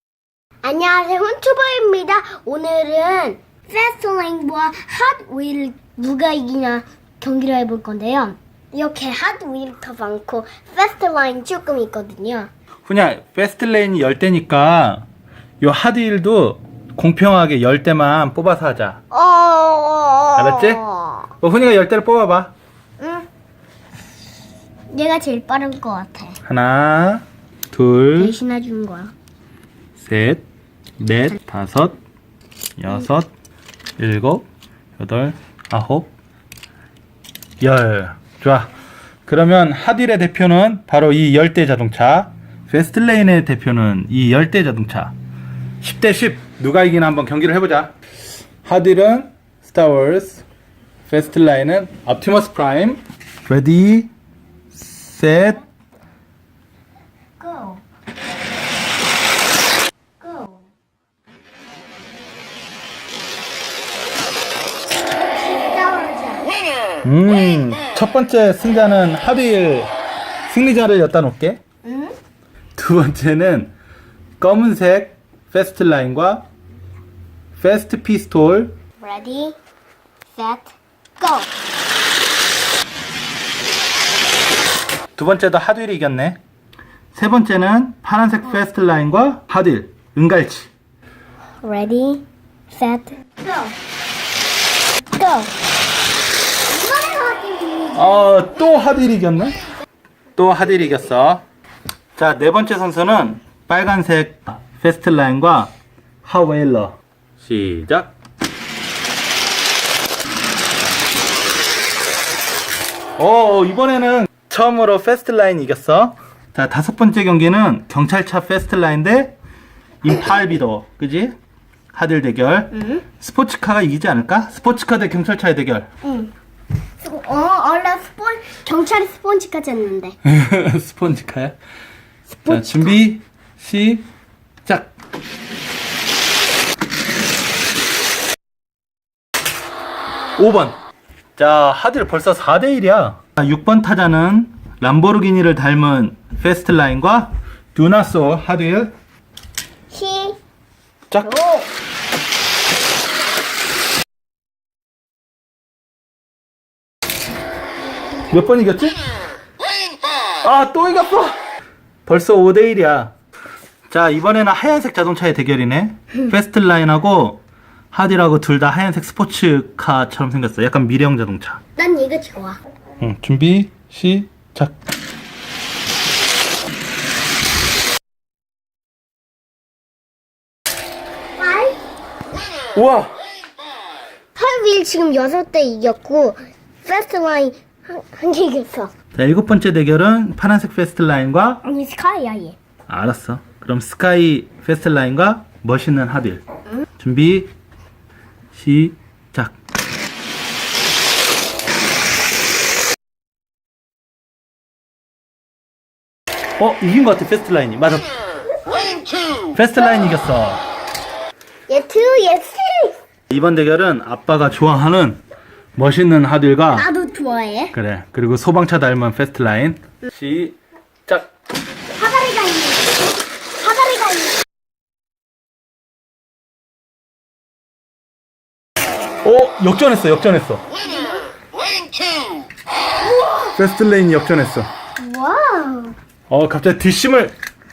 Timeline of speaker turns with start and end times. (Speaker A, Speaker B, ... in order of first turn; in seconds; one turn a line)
Speaker A: 0.6-12.5
Speaker B: 12.8-15.0
Speaker B: 15.6-19.0
Speaker A: 19.1-21.3
Speaker B: 20.4-20.8
Speaker B: 21.4-22.5
Speaker A: 23.0-23.3
Speaker A: 24.9-26.4
Speaker B: 26.4-28.4
Speaker A: 28.1-29.1
Speaker B: 29.9-30.4
Speaker B: 31.0-31.9
Speaker B: 32.8-33.3
Speaker B: 34.0-34.5
Speaker B: 35.0-36.1
Speaker B: 37.6-38.7
Speaker B: 39.2-45.1
Speaker B: 45.8-47.9
Speaker B: 48.6-50.4
Speaker B: 51.1-54.1
Speaker B: 54.7-55.6
Speaker A: 57.4-57.8
Speaker A: 60.2-60.7
Speaker A: 65.1-66.5
Speaker B: 67.0-69.9
Speaker B: 70.5-71.6
Speaker A: 71.8-72.1
Speaker B: 72.8-73.7
Speaker B: 74.4-76.4
Speaker B: 77.6-78.7
Speaker A: 79.0-79.5
Speaker A: 80.3-81.5
Speaker B: 85.2-86.4
Speaker B: 87.1-90.7
Speaker A: 91.6-93.7
Speaker A: 95.2-95.5
Speaker A: 96.7-98.4
Speaker B: 97.9-99.6
Speaker B: 100.3-101.4
Speaker B: 102.2-105.7
Speaker B: 106.2-108.1
Speaker B: 113.2-119.3
Speaker B: 120.0-121.3
Speaker B: 121.9-125.9
Speaker A: 122.7-123.0
Speaker A: 126.0-126.3
Speaker A: 127.0-130.2
Speaker B: 130.2-131.6
Speaker A: 132.3-133.0
Speaker B: 132.5-134.0
Speaker B: 134.6-134.9
Speaker B: 140.4-140.7
Speaker B: 141.4-148.9
Speaker A: 149.9-150.4
Speaker A: 151.2-151.7
Speaker B: 158.3-159.0
Speaker B: 160.4-161.4
Speaker B: 162.1-163.1
Speaker B: 163.9-167.4
Speaker B: 167.9-171.6
Speaker A: 171.8-172.6
Speaker B: 173.0-174.8
Speaker A: 181.4-181.8
Speaker B: 182.7-183.1
Speaker A: 184.3-188.9
Speaker B: 189.1-191.6
Speaker A: 191.6-192.6
Speaker B: 192.9-196.4
Speaker B: 197.0-197.5
Speaker B: 198.5-199.5
Speaker B: 206.6-208.1
Speaker B: 209.5-210.6
Speaker A: 211.7-212.9
Speaker B: 213.3-215.2
Speaker B: 215.8-216.8
Speaker A: 216.7-217.7
Speaker B: 217.7-221.3
Speaker A: 221.9-224.3
Speaker B: 229.2-230.6
Speaker A: 233.2-233.5
Speaker B: 233.5-234.7
Speaker A: 235.0-235.9
Speaker B: 236.3-237.3